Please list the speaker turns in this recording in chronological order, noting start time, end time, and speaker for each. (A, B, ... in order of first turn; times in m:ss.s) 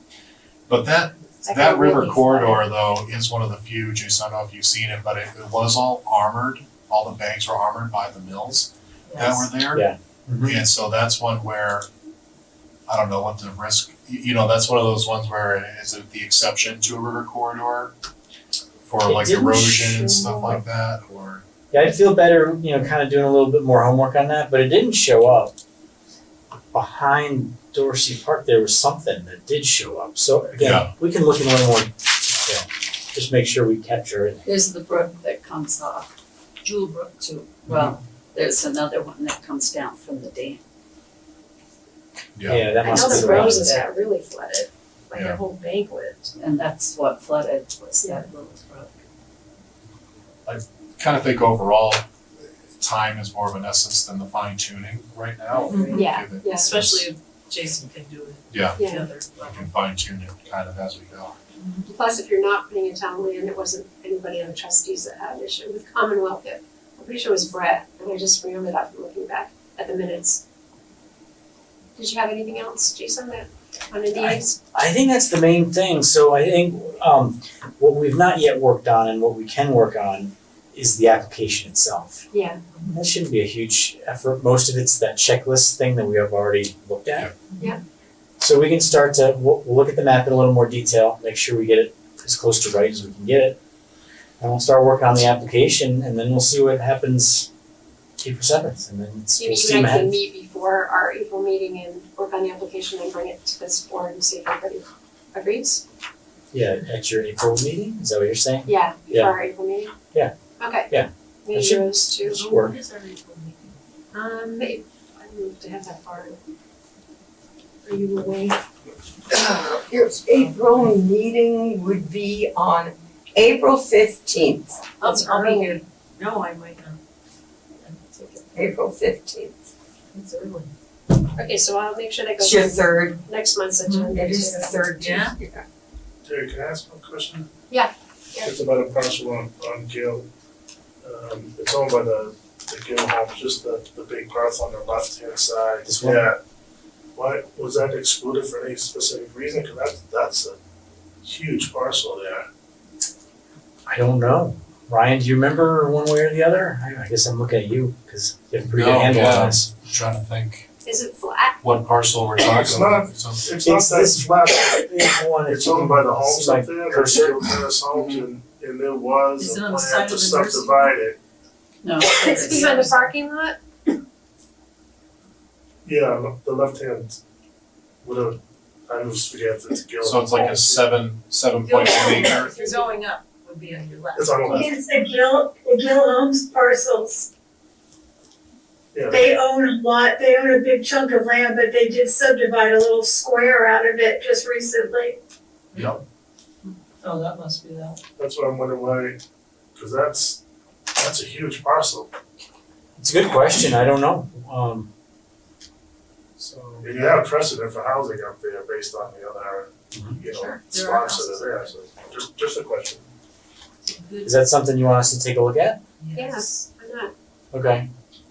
0:00.7-0:09.9 A
0:01.4-0:02.6 B
0:09.1-0:09.5 C
0:09.7-0:10.6 D
0:10.4-0:11.9 A
0:12.9-0:17.9 A
0:18.9-0:21.4 A
0:19.0-0:20.6 D
0:21.7-0:25.6 D
0:26.7-0:34.5 D
0:30.6-0:30.9 A
0:34.5-0:40.6 E
0:42.4-0:42.6 A
0:42.5-0:43.8 D
0:42.8-0:43.9 E
0:42.8-0:46.3 B
0:45.1-0:45.4 A
0:46.4-0:48.9 E
0:50.5-0:52.0 A
0:52.8-0:57.1 A
0:55.7-0:59.7 C
0:55.9-0:56.7 B
0:58.5-0:58.8 A
0:58.8-0:59.1 B
0:59.4-1:01.4 A
1:01.6-1:01.9 C
1:01.9-1:10.4 B
1:12.0-1:14.6 B
1:14.2-1:22.2 D
1:22.3-1:22.6 B
1:22.8-1:27.3 D
1:28.4-1:33.6 D
1:34.4-1:37.5 D
1:38.2-1:40.2 D
1:39.3-1:45.8 B
1:46.5-1:49.4 D
1:48.7-1:49.9 B
1:50.6-1:50.9 B
1:50.9-1:52.8 D
1:51.4-1:52.7 B
1:52.4-1:53.8 C
1:54.1-1:56.4 B
1:57.8-1:58.6 B
1:59.3-2:05.0 F
2:05.0-2:07.0 C
2:05.0-2:05.8 B
2:07.8-2:08.6 C
2:08.5-2:09.7 F
2:10.1-2:10.7 C
2:11.4-2:14.8 B
2:12.4-2:13.2 F
2:13.8-2:14.2 C
2:14.1-2:15.6 F
2:15.0-2:15.4 C
2:16.2-2:17.5 G
2:17.7-2:18.5 B
2:18.4-2:20.3 G
2:21.0-2:26.4 G
2:25.8-2:26.3 D
2:27.2-2:30.6 G
2:31.2-2:32.5 G
2:33.9-2:39.7 D
2:38.7-2:40.7 A
2:40.8-2:41.6 B
2:41.6-2:43.5 A
2:42.4-2:51.2 G
2:43.6-2:47.6 D
2:47.9-2:48.2 A
2:49.4-2:51.0 C
2:51.8-2:52.9 E
2:52.2-2:53.6 B
2:52.3-2:53.0 C
2:55.8-2:57.2 G
2:58.0-3:00.8 G
3:00.0-3:02.6 A
3:01.6-3:04.6 C
3:04.2-3:04.7 G
3:04.5-3:07.3 H
3:08.9-3:09.2 G
3:09.1-3:15.2 H
3:15.7-3:16.0 A
3:16.7-3:18.0 C
3:18.2-3:19.2 G
3:19.8-3:20.4 G
3:20.9-3:22.1 G
3:23.0-3:24.9 D
3:26.4-3:27.1 A
3:26.8-3:33.1 G
3:29.9-3:30.2 D
3:30.2-3:31.8 C
3:33.8-3:34.3 C
3:34.2-3:35.8 D
3:36.0-3:36.5 C
3:36.1-3:37.1 B
3:37.5-3:37.9 D